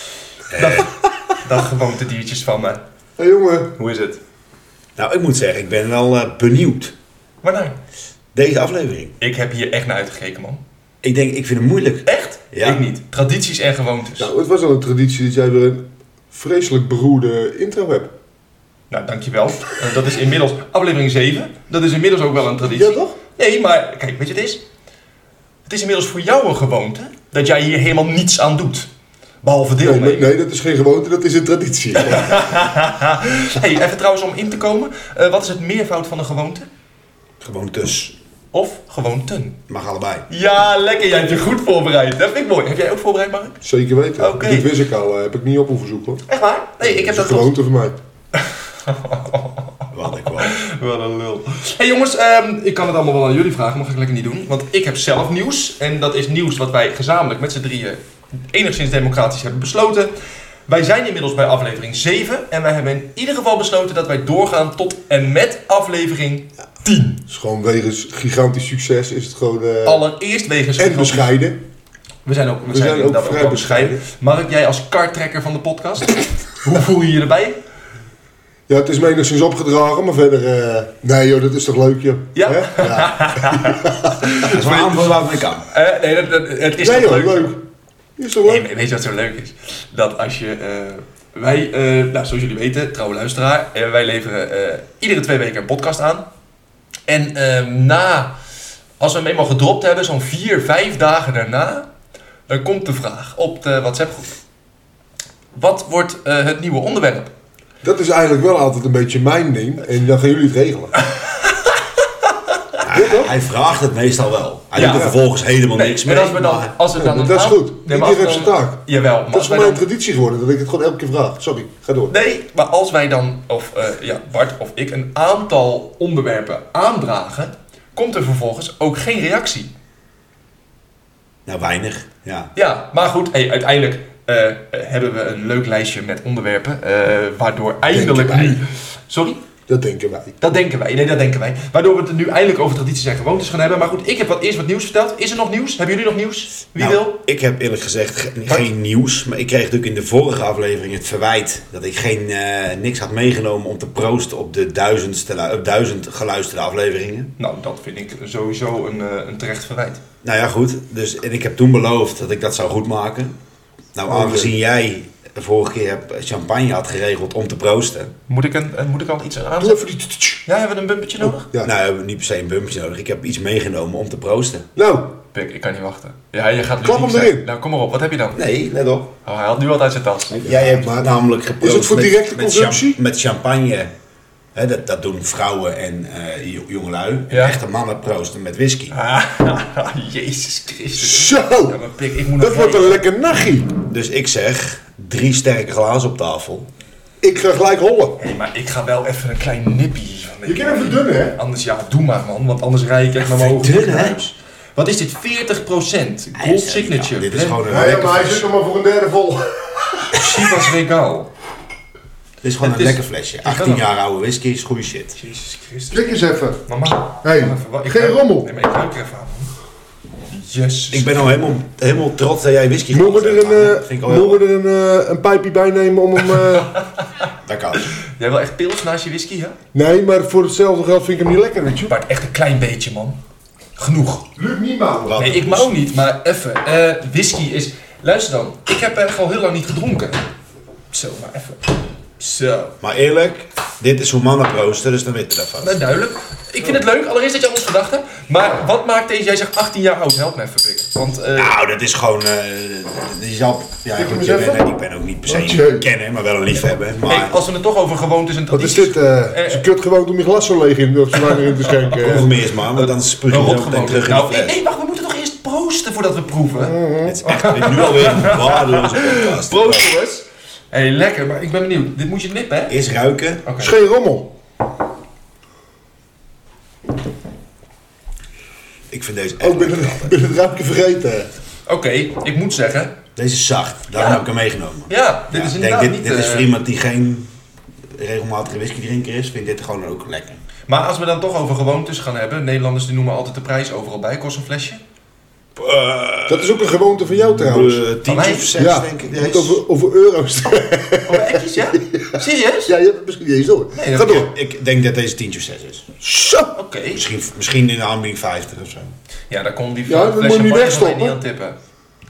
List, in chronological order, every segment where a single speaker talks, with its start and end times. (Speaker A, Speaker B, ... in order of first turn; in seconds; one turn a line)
Speaker A: 0.5-0.8
Speaker B: 0.5-2.8
Speaker C: 3.2-3.7
Speaker B: 3.8-4.2
Speaker A: 5.0-6.9
Speaker B: 7.4-7.8
Speaker A: 8.3-9.1
Speaker B: 9.2-10.6
Speaker A: 11.0-12.8
Speaker B: 12.1-14.3
Speaker C: 14.2-18.1
Speaker B: 18.9-24.6
Speaker C: 22.6-23.1
Speaker B: 25.7-28.9
Speaker B: 29.4-30.3
Speaker C: 29.8-32.4
Speaker B: 31.9-36.7
Speaker A: 37.4-38.1
Speaker B: 38.5-39.6
Speaker A: 39.7-40.2
Speaker B: 40.3-43.6
Speaker C: 43.6-46.2
Speaker B: 44.2-44.7
Speaker B: 46.3-47.5
Speaker C: 46.8-48.0
Speaker B: 48.3-60.1
Speaker A: 49.9-50.6
Speaker B: 60.7-67.2
Speaker C: 67.3-70.0
Speaker B: 69.8-71.3
Speaker C: 70.8-71.6
Speaker B: 72.2-77.6
Speaker C: 72.7-74.0
Speaker C: 78.7-84.2
Speaker B: 82.3-85.1
Speaker A: 84.4-85.6
Speaker B: 85.6-87.5
Speaker C: 86.8-87.6
Speaker C: 88.2-88.7
Speaker B: 88.4-96.3
Speaker B: 97.1-98.3
Speaker B: 99.0-101.9
Speaker B: 102.5-104.3
Speaker B: 105.5-107.3
Speaker C: 107.8-110.9
Speaker A: 112.8-116.7
Speaker C: 112.9-113.3
Speaker B: 114.8-115.1
Speaker C: 114.8-115.2
Speaker B: 115.7-119.8
Speaker C: 117.0-122.1
Speaker B: 122.1-129.7
Speaker A: 131.4-132.5
Speaker B: 132.5-139.4
Speaker C: 137.9-138.6
Speaker C: 139.7-140.3
Speaker B: 140.4-147.2
Speaker A: 146.8-157.3
Speaker B: 157.4-160.0
Speaker A: 160.2-163.3
Speaker A: 163.9-168.1
Speaker C: 164.1-164.5
Speaker B: 168.3-169.8
Speaker C: 169.6-170.4
Speaker B: 170.4-171.4
Speaker C: 171.2-171.7
Speaker A: 171.6-174.6
Speaker C: 174.8-175.2
Speaker B: 175.3-178.4
Speaker C: 176.8-177.5
Speaker A: 178.3-179.1
Speaker B: 179.2-180.5
Speaker A: 180.4-183.9
Speaker C: 180.4-183.0
Speaker A: 184.5-188.9
Speaker B: 187.3-187.6
Speaker B: 188.9-193.0
Speaker C: 191.0-191.8
Speaker C: 192.4-193.7
Speaker A: 193.8-196.7
Speaker C: 197.2-198.2
Speaker B: 198.2-207.6
Speaker C: 200.4-201.3
Speaker A: 203.2-204.2
Speaker A: 206.3-208.6
Speaker C: 207.7-210.2
Speaker B: 210.1-211.3
Speaker A: 212.4-215.1
Speaker B: 212.6-213.8
Speaker B: 215.2-216.0
Speaker C: 215.9-216.6
Speaker B: 216.7-219.5
Speaker C: 217.2-218.5
Speaker B: 220.3-221.4
Speaker A: 220.9-224.4
Speaker C: 222.9-226.8
Speaker B: 226.3-227.0
Speaker A: 227.4-227.8
Speaker B: 227.7-229.6
Speaker C: 229.7-231.9
Speaker B: 231.9-233.2
Speaker B: 233.8-234.3
Speaker C: 234.3-235.4
Speaker A: 235.0-235.7
Speaker B: 235.2-240.2
Speaker B: 240.9-242.7
Speaker A: 242.8-245.8
Speaker B: 245.6-251.6
Speaker A: 251.3-257.4
Speaker C: 253.9-254.6
Speaker C: 255.2-255.8
Speaker B: 257.1-259.7
Speaker C: 258.5-262.3
Speaker B: 261.7-262.2
Speaker A: 261.9-264.6
Speaker B: 262.8-272.8
Speaker C: 266.6-267.2
Speaker A: 267.0-269.9
Speaker A: 272.7-273.4
Speaker B: 273.4-273.7
Speaker C: 273.6-274.3
Speaker A: 278.9-280.1
Speaker C: 279.4-281.3
Speaker B: 281.7-282.9
Speaker A: 283.1-287.3
Speaker B: 283.9-284.2
Speaker B: 284.9-286.5
Speaker A: 287.9-290.4
Speaker B: 290.7-294.8
Speaker A: 295.6-299.6
Speaker C: 296.3-297.8
Speaker B: 298.1-298.5
Speaker C: 298.6-304.3
Speaker B: 301.1-302.7
Speaker B: 303.7-304.3
Speaker A: 304.0-305.9
Speaker C: 306.0-306.5
Speaker B: 306.5-307.0
Speaker A: 306.9-308.9
Speaker B: 309.3-311.6
Speaker C: 309.9-311.2